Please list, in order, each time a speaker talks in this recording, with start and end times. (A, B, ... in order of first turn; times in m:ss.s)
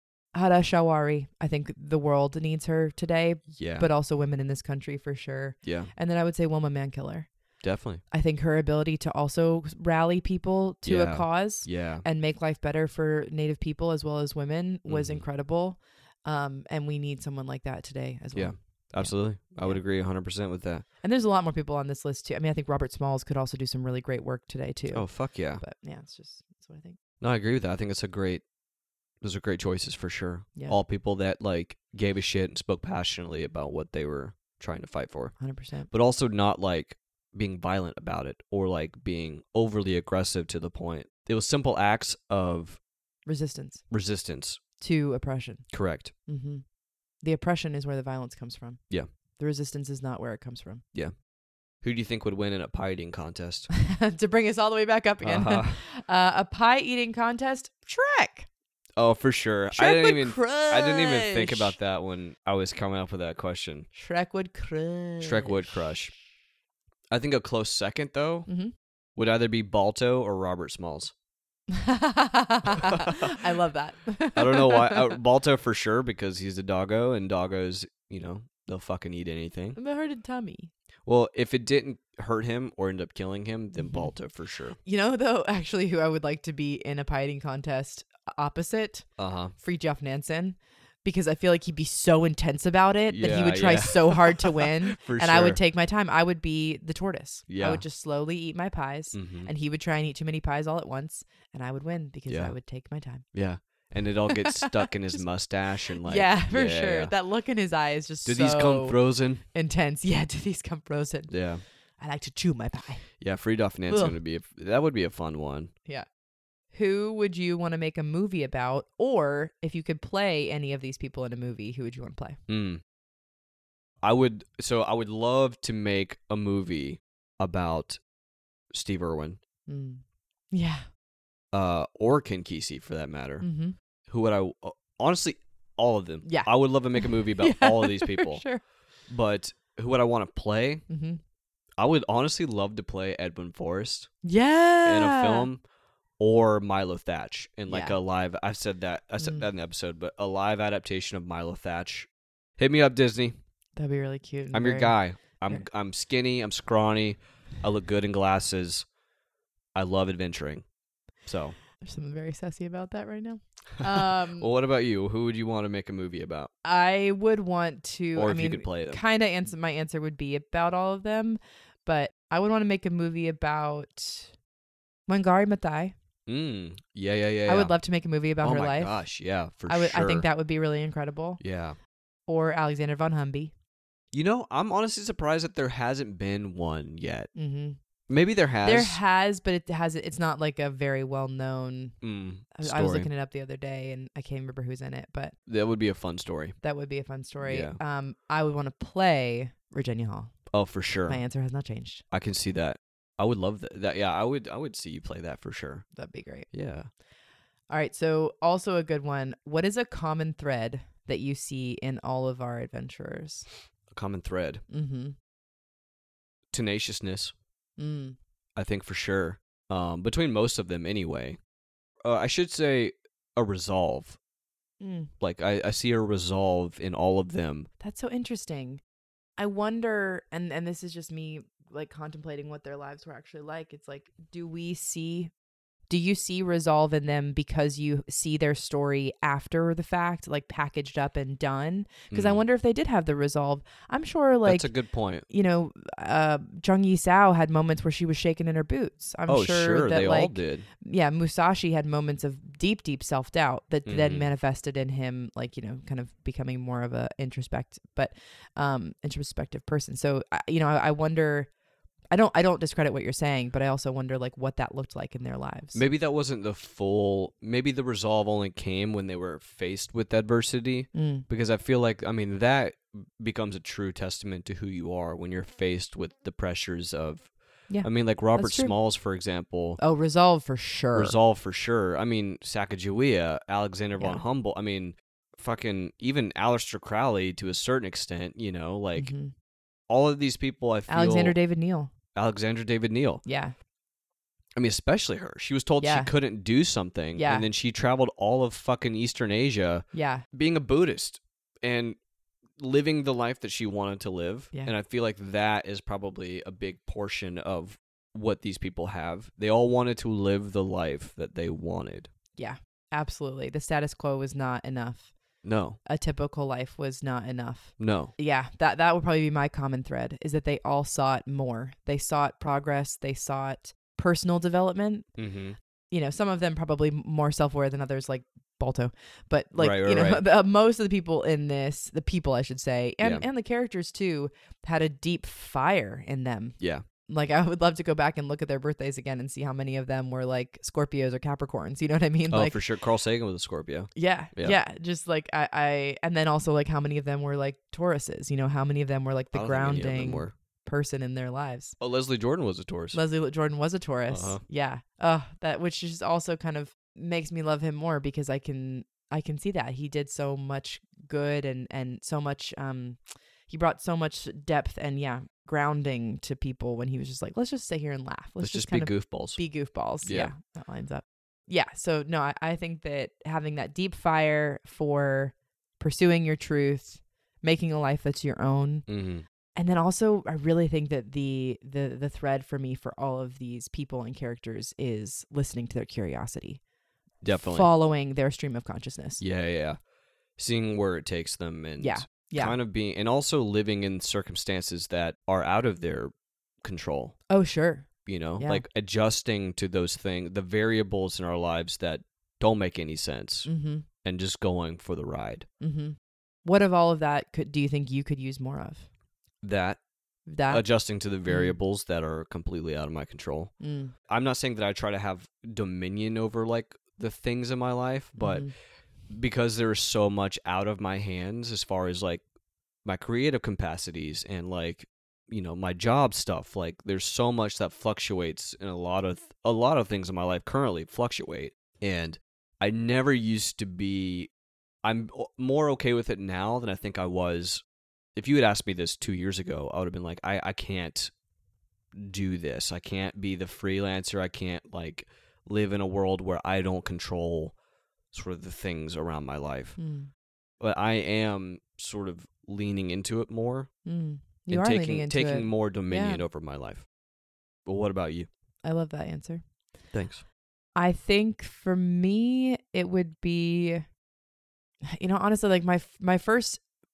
0:00.3-0:07.3 A
0:03.6-0:03.9 B
0:05.6-0:05.9 B
0:07.6-0:08.0 B
0:08.1-0:19.8 A
0:10.8-0:12.0 B
0:14.9-0:15.2 B
0:18.3-0:20.8 B
0:21.0-0:27.0 A
0:24.9-0:25.6 B
0:27.2-0:28.4 B
0:29.2-0:35.3 B
0:35.4-0:35.9 A
0:35.9-0:42.8 B
0:43.2-0:43.8 A
0:43.9-0:44.6 B
0:44.8-0:45.7 A
0:45.7-0:46.1 B
0:46.2-0:46.6 A
0:47.2-0:48.8 A
0:49.4-0:50.8 A
0:51.8-0:53.7 B
0:53.7-0:58.5 A
0:55.2-0:55.8 B
0:59.0-1:03.9 B
0:59.7-1:01.7 A
1:03.9-1:06.2 A
1:05.2-1:06.1 B
1:07.1-1:08.5 B
1:08.5-1:08.7 A
1:09.2-1:11.1 B
1:11.7-1:15.1 A
1:12.8-1:13.3 B
1:14.3-1:19.8 B
1:19.8-1:20.7 A
1:21.0-1:24.8 B
1:23.8-1:24.1 A
1:24.8-1:43.2 A
1:29.2-1:29.5 B
1:33.1-1:35.6 B
1:37.5-1:37.8 B
1:39.1-1:39.5 B
1:42.3-1:42.5 B
1:43.3-1:47.1 B
1:44.3-1:44.9 A
1:46.0-1:51.3 A
1:48.2-1:49.4 B
1:51.3-1:51.6 B
1:52.0-1:53.2 A
1:53.2-1:55.7 B
1:53.9-1:54.2 A
1:56.7-2:02.4 A
2:02.5-2:02.8 B
2:04.0-2:08.0 B
2:08.7-2:09.4 B
2:09.7-2:10.8 A
2:11.5-2:13.5 B
2:13.4-2:13.8 A
2:14.1-2:18.4 B
2:16.2-2:18.6 A
2:19.1-2:20.8 B
2:20.9-2:21.2 A
2:21.8-2:24.1 B
2:24.2-2:25.5 A
2:24.8-2:25.6 B
2:26.2-2:33.4 B
2:27.7-2:28.0 A
2:29.2-2:29.5 A
2:33.8-2:34.9 A
2:34.5-2:38.8 B
2:39.7-2:40.6 B
2:41.2-2:41.6 B
2:41.8-2:44.5 A
2:43.9-2:46.5 B
2:46.6-2:54.3 A
2:48.1-2:49.0 B
2:55.1-2:55.9 A
2:56.3-2:57.7 B
2:57.5-2:59.0 A
2:58.4-3:00.2 B
2:59.7-3:01.4 A
3:01.4-3:01.8 B
3:02.3-3:03.5 A
3:04.1-3:07.3 B
3:07.3-3:07.8 A
3:08.1-3:09.0 B
3:08.6-3:12.0 A
3:12.0-3:13.1 B
3:12.5-3:15.3 A
3:15.5-3:16.6 B
3:16.6-3:20.4 A
3:17.4-3:17.8 B
3:20.5-3:21.2 B
3:21.1-3:22.0 A
3:22.1-3:25.8 B
3:26.0-3:26.5 A
3:26.5-3:26.9 B
3:27.7-3:33.5 A
3:33.9-3:34.6 B
3:34.7-3:35.2 A
3:36.5-3:37.3 B
3:37.8-3:38.2 A
3:38.6-3:41.4 B
3:42.0-3:44.2 B
3:44.8-3:45.1 A
3:45.2-3:47.7 B
3:47.8-3:48.8 A
3:49.4-3:55.3 A
3:55.9-4:04.7 A
4:02.1-4:02.4 B
4:04.4-4:05.2 B
4:05.2-4:21.5 A
4:09.3-4:10.6 B
4:13.8-4:14.3 B
4:22.1-4:25.8 A
4:25.7-4:37.3 B
4:30.9-4:31.2 A
4:37.7-4:38.7 A
4:37.8-4:39.8 B
4:39.8-4:41.2 A
4:40.9-4:49.1 B
4:44.0-4:44.2 A
4:49.0-4:49.3 A
4:49.9-4:51.4 B
4:50.9-4:51.9 A
4:52.1-4:53.2 B
4:53.2-4:53.5 A
4:54.6-5:02.0 B
4:55.8-4:56.1 A
4:57.2-4:57.5 A
4:59.9-5:00.2 A
5:02.6-5:12.1 B
5:12.4-5:15.1 A
5:15.4-5:15.8 B
5:15.8-5:25.1 A
5:17.8-5:18.1 B
5:25.2-5:25.6 B
5:25.9-5:42.6 A
5:29.6-5:30.2 B
5:42.3-5:44.6 B
5:43.9-5:51.8 A
5:49.3-5:50.3 B
5:51.8-5:53.0 B
5:52.9-6:18.8 A
5:54.1-5:54.4 B
6:08.4-6:09.4 B
6:10.0-6:10.3 B
6:18.9-6:19.2 B
6:19.5-6:26.6 A
6:27.2-6:27.7 B
6:27.3-6:29.2 A
6:29.2-6:29.8 B
6:30.4-6:37.2 B
6:31.8-6:32.6 A
6:37.3-6:38.6 A
6:38.0-6:43.5 B
6:43.4-6:43.8 A
6:44.0-6:45.4 B
6:45.6-6:48.9 A
6:49.4-6:49.8 B
6:50.3-6:50.6 A
6:50.5-6:53.5 B
6:51.2-6:51.6 A
6:53.6-6:53.9 A
6:54.1-6:58.5 B
6:58.2-6:58.5 A
6:59.1-7:02.2 B
7:02.8-7:14.3 B
7:14.8-7:17.6 B
7:18.2-7:21.1 B
7:21.9-7:27.5 B
7:28.1-7:29.8 B
7:29.8-7:30.1 A
7:30.6-7:33.7 B
7:33.8-7:36.2 A
7:34.5-7:36.8 B
7:37.6-7:38.3 B
7:38.6-7:39.4 A
7:39.9-7:40.2 B
7:40.8-7:43.8 A
7:44.9-7:46.6 A